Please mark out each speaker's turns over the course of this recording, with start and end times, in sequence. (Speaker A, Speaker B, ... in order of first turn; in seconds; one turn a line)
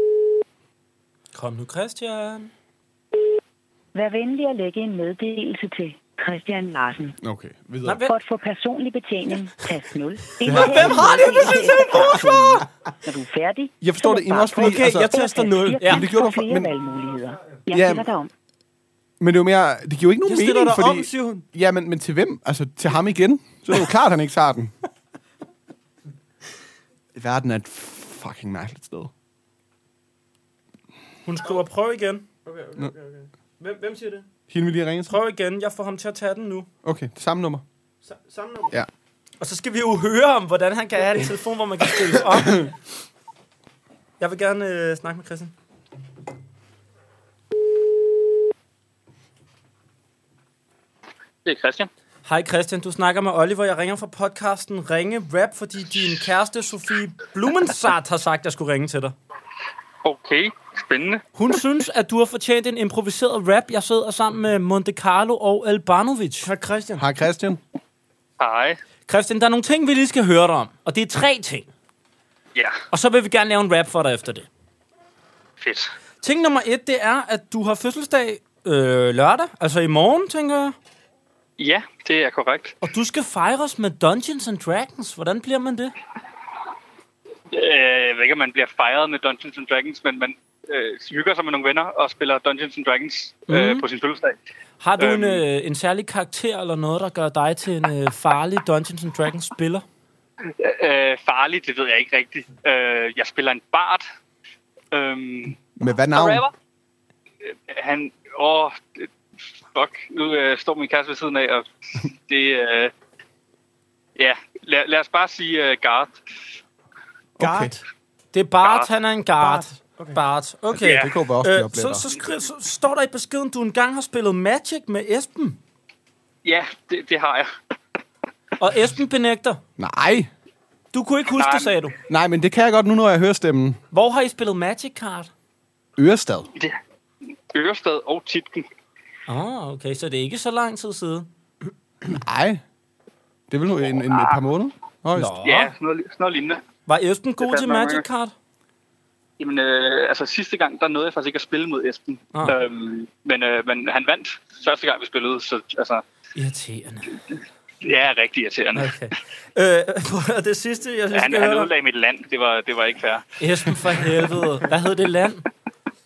Speaker A: 1.3-2.5
Speaker B: 3.9-7.2
Speaker C: 7.2-8.0
Speaker A: 7.8-8.1
Speaker B: 8.0-18.3
Speaker C: 10.4-12.6
Speaker A: 10.4-12.2
Speaker D: 11.1-11.8
Speaker C: 13.8-15.1
Speaker D: 14.5-15.8
Speaker A: 15.8-16.1
Speaker C: 15.8-16.7
Speaker C: 17.7-18.1
Speaker C: 19.2-24.7
Speaker D: 20.2-21.4
Speaker C: 27.1-29.1
Speaker A: 31.2-32.2
Speaker D: 32.4-34.2
Speaker C: 34.5-35.1
Speaker A: 35.1-36.7
Speaker C: 36.8-37.6
Speaker D: 38.0-38.7
Speaker A: 39.4-42.7
Speaker A: 44.2-45.5
Speaker E: 51.4-51.9
Speaker A: 52.2-59.1
Speaker E: 60.0-61.2
Speaker A: 61.3-66.5
Speaker D: 66.4-67.0
Speaker C: 67.0-67.6
Speaker E: 68.4-68.8
Speaker A: 69.1-71.7
Speaker A: 72.9-74.5
Speaker E: 75.6-75.9
Speaker A: 76.2-80.8
Speaker E: 81.6-82.7
Speaker A: 82.8-85.9
Speaker E: 87.5-94.3
Speaker A: 93.5-93.8
Speaker A: 94.8-99.8
Speaker E: 95.0-95.4
Speaker E: 100.6-104.0
Speaker E: 104.9-105.5
Speaker C: 105.8-106.5
Speaker E: 107.7-109.1
Speaker E: 109.7-112.9
Speaker E: 114.2-116.2
Speaker C: 117.4-117.7
Speaker D: 117.4-117.8
Speaker A: 118.3-125.6
Speaker E: 118.6-118.9
Speaker D: 119.4-120.2
Speaker C: 120.7-122.1
Speaker E: 120.8-121.1
Speaker E: 126.4-127.5
Speaker A: 128.6-129.6
Speaker C: 129.8-130.3
Speaker A: 130.9-131.9
Speaker E: 131.3-131.8
Speaker C: 132.1-133.8
Speaker A: 133.9-135.3
Speaker C: 136.0-136.5
Speaker E: 137.5-138.7
Speaker A: 139.3-141.3
Speaker C: 142.1-142.6
Speaker C: 143.5-145.3
Speaker A: 145.1-145.7
Speaker E: 145.4-146.6
Speaker A: 146.9-148.3
Speaker E: 147.4-148.0
Speaker E: 149.4-156.0
Speaker A: 156.3-157.2
Speaker E: 157.8-158.9
Speaker A: 158.7-161.7
Speaker E: 161.1-163.2
Speaker A: 163.4-165.4